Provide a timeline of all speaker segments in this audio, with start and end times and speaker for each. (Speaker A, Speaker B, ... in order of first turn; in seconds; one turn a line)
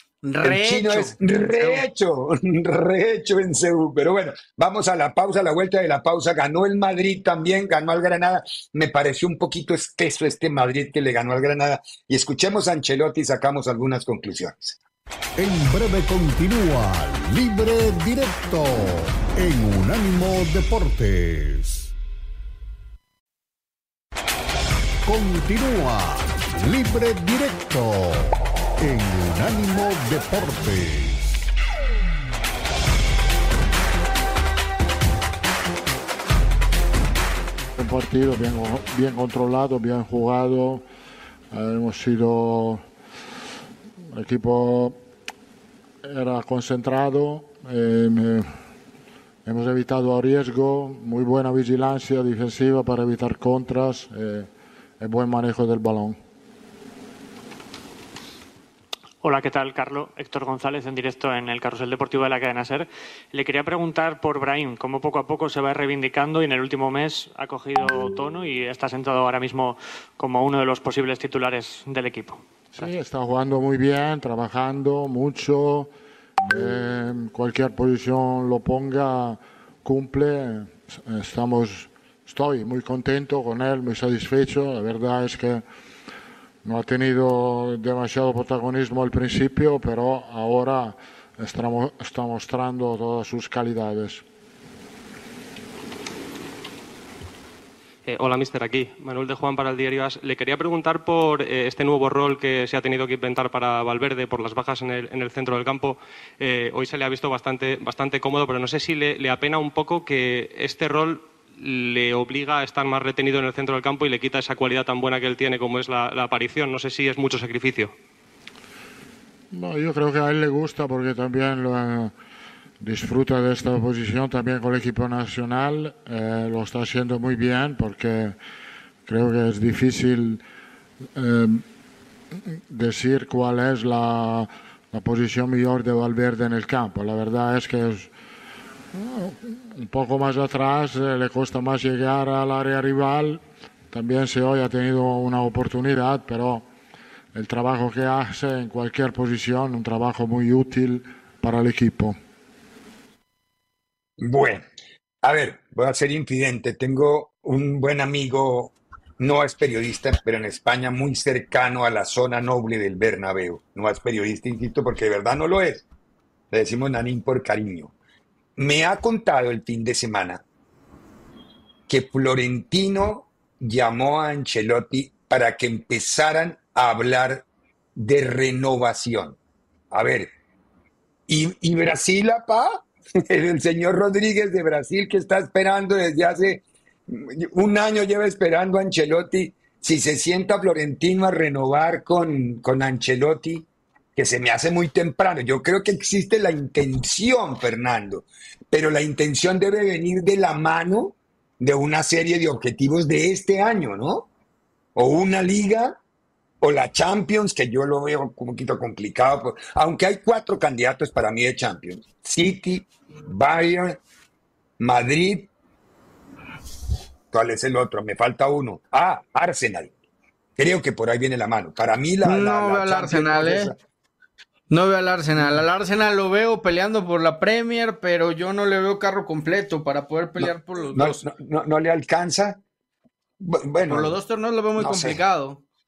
Speaker A: 0.2-1.9
Speaker B: 0.4-14.8
Speaker C: 15.4-21.9
Speaker C: 25.1-31.4
Speaker D: 37.8-40.8
Speaker D: 41.5-42.8
Speaker D: 44.1-45.0
Speaker D: 46.0-48.5
Speaker D: 49.5-54.5
Speaker D: 55.0-56.2
Speaker E: 59.2-72.4
Speaker D: 72.7-75.9
Speaker D: 76.5-85.6
Speaker D: 86.6-94.2
Speaker F: 98.1-117.9
Speaker D: 119.5-122.1
Speaker D: 122.8-128.4
Speaker D: 129.1-130.4
Speaker D: 131.2-131.6
Speaker D: 132.7-138.1
Speaker D: 138.9-146.7
Speaker D: 147.3-152.2
Speaker B: 154.2-154.6
Speaker B: 155.2-165.8
Speaker B: 166.5-167.9
Speaker B: 168.6-170.4
Speaker B: 171.9-179.4
Speaker B: 179.9-180.3
Speaker B: 181.3-204.3
Speaker B: 204.9-206.0
Speaker B: 206.6-214.0
Speaker B: 214.8-215.5
Speaker B: 217.3-219.9
Speaker B: 220.6-223.8
Speaker A: 222.2-223.7
Speaker A: 224.7-231.2
Speaker B: 230.4-232.6
Speaker B: 233.4-234.2
Speaker A: 233.9-235.6
Speaker B: 234.8-235.2